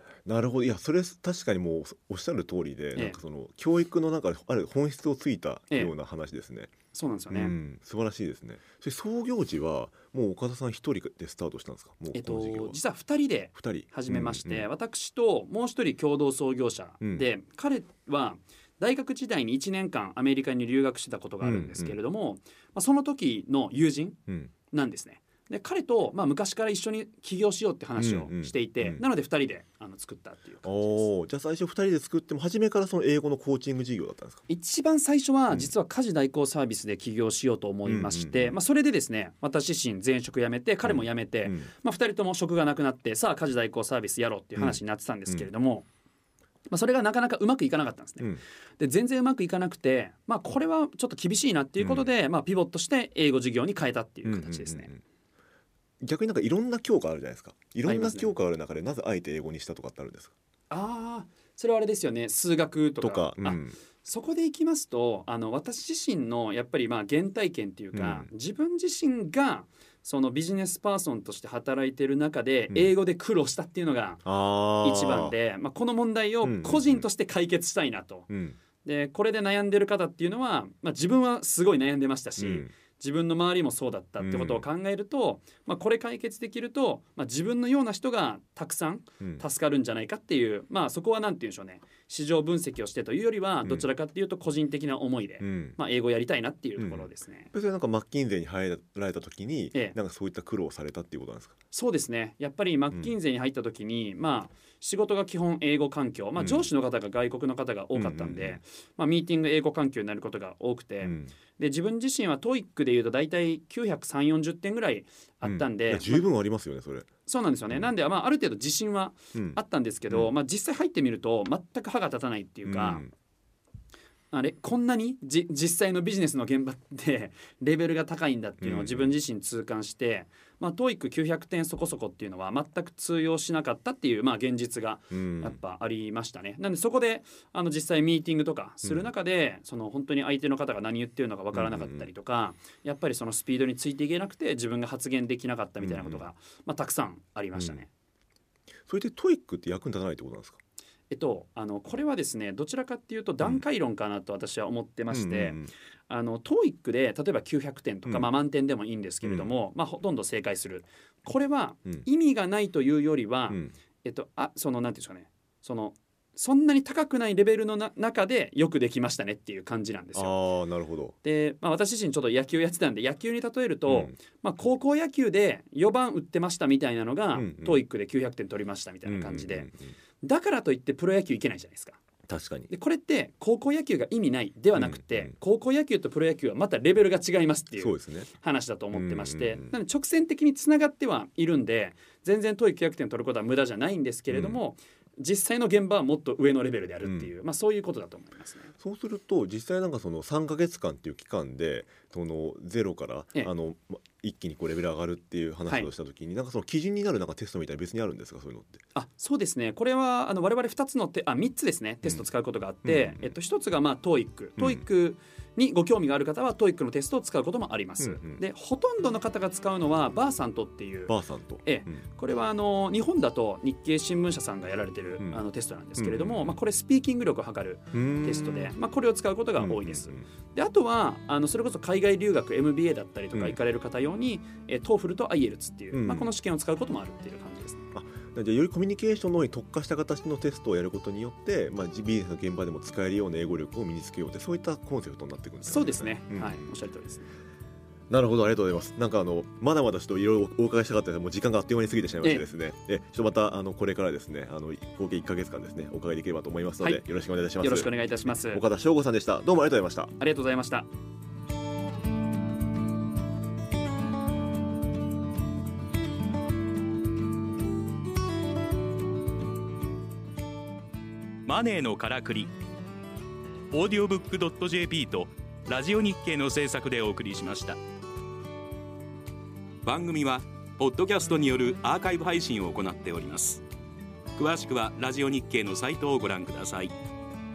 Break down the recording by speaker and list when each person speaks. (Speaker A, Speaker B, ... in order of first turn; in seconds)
Speaker A: 0.2-6.7, 7.3-12.8, 13.5-14.7, 17.0-17.2, 21.4-21.9, 28.0-29.0, 30.6-34.4, 37.8-38.6, 40.8-41.7, 44.6-45.5, 51.8-52.1, 54.2-55.0, 56.0-60.3, 63.0-63.8, 67.9-68.3, 74.2-75.3, 76.4-77.0, 78.3-78.6, 82.4-82.7, 84.2-84.7, 95.4-95.8, 96.8-101.5, 106.4-106.7, 107.9-108.6, 111.0-111.3, 115.4-117.1, 119.3-120.3, 122.6-123.1, 128.6-129.2, 135.1-135.6, 141.5-142.1, 145.8-146.2, 147.6-147.8, 148.9-150.6, 155.1-155.7, 159.2-159.5, 170.1-171.2, 173.9-174.1, 177.3-177.8, 179.0-179.9, 182.3-182.7, 184.7-185.3, 187.8-188.3, 188.9-189.7, 194.3-194.6, 197.0-197.3, 198.8-208.8, 212.8-213.3, 214.6-214.8, 218.0-218.4, 221.1-222.0, 226.0-226.6, 227.9-228.7, 229.6-230.3, 235.9-236.3, 237.9-246.6, 248.1-260.1
Speaker B: 6.9-7.5, 12.1-31.1, 34.5-45.9, 46.7-54.9, 57.8-58.3, 60.7-74.3, 74.8-78.3, 78.8-97.5, 101.7-116.3, 117.2-123.0, 124.3-147.9, 151.1-170.4, 171.2-182.0, 182.7-198.7, 208.9-237.9, 245.6-247.3, 257.6-258.6, 260.2-260.9
Speaker C: 271.4-272.5, 273.7-277.8, 279.8-283.6, 284.4-286.9